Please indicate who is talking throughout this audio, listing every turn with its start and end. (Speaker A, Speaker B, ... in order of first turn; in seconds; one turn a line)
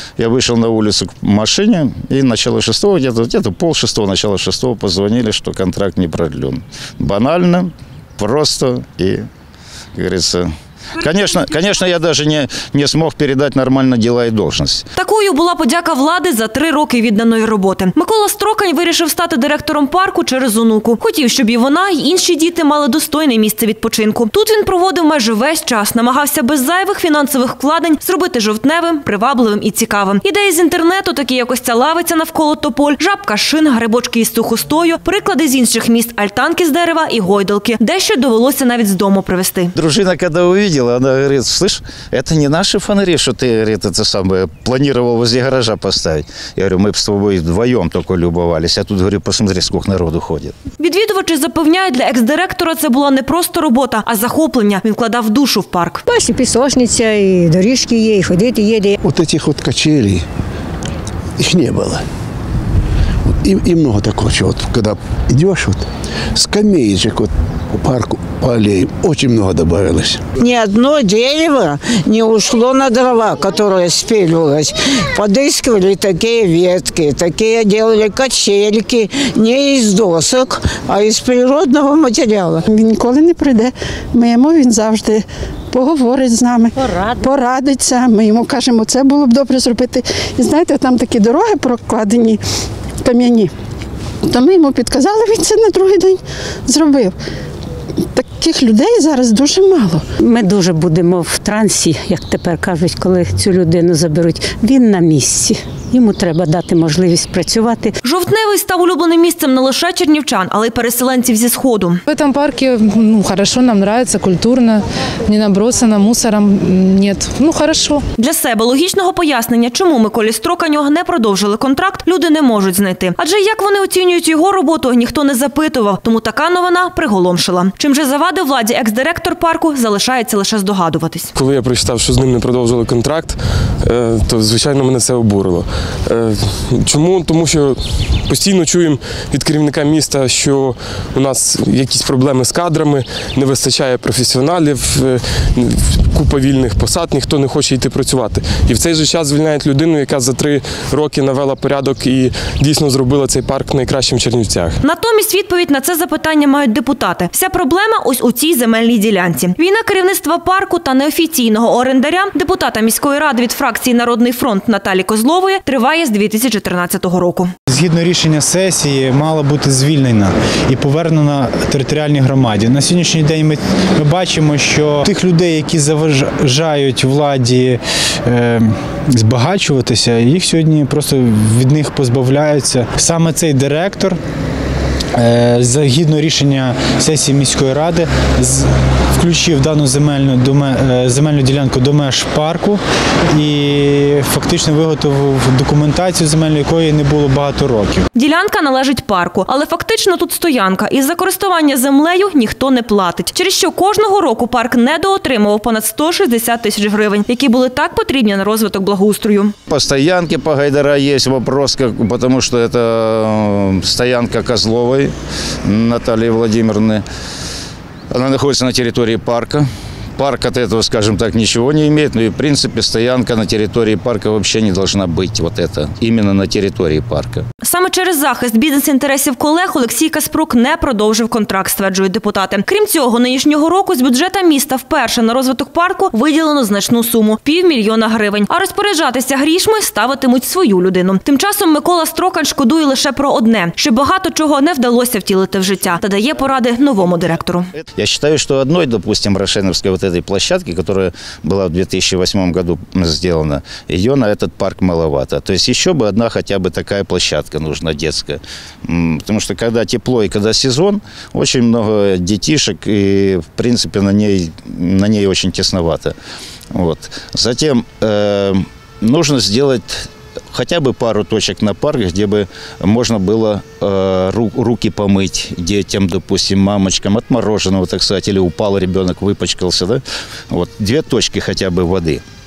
Speaker A: 0.2-9.3
Speaker A: 9.9-14.9
Speaker B: 15.0-39.7
Speaker A: 39.8-50.5
Speaker B: 50.8-56.0
Speaker C: 56.1-59.0
Speaker D: 59.0-60.2
Speaker D: 61.4-62.0
Speaker D: 63.4-70.2
Speaker E: 70.4-82.6
Speaker F: 82.7-92.4
Speaker F: 93.0-93.5
Speaker F: 94.3-97.1
Speaker F: 98.2-100.1
Speaker G: 100.2-108.0
Speaker B: 108.0-112.0
Speaker H: 112.1-118.0
Speaker B: 118.2-131.3
Speaker I: 131.3-154.8
Speaker B: 154.8-167.5
Speaker J: 167.7-184.2
Speaker J: 185.2-192.8
Speaker J: 193.3-198.1
Speaker B: 198.1-209.5
Speaker A: 209.7-215.1
Speaker A: 215.7-217.0
Speaker A: 218.1-227.4
Speaker B: 227.6-247.7
Speaker A: 246.0-266.1
Speaker A: 266.7-282.2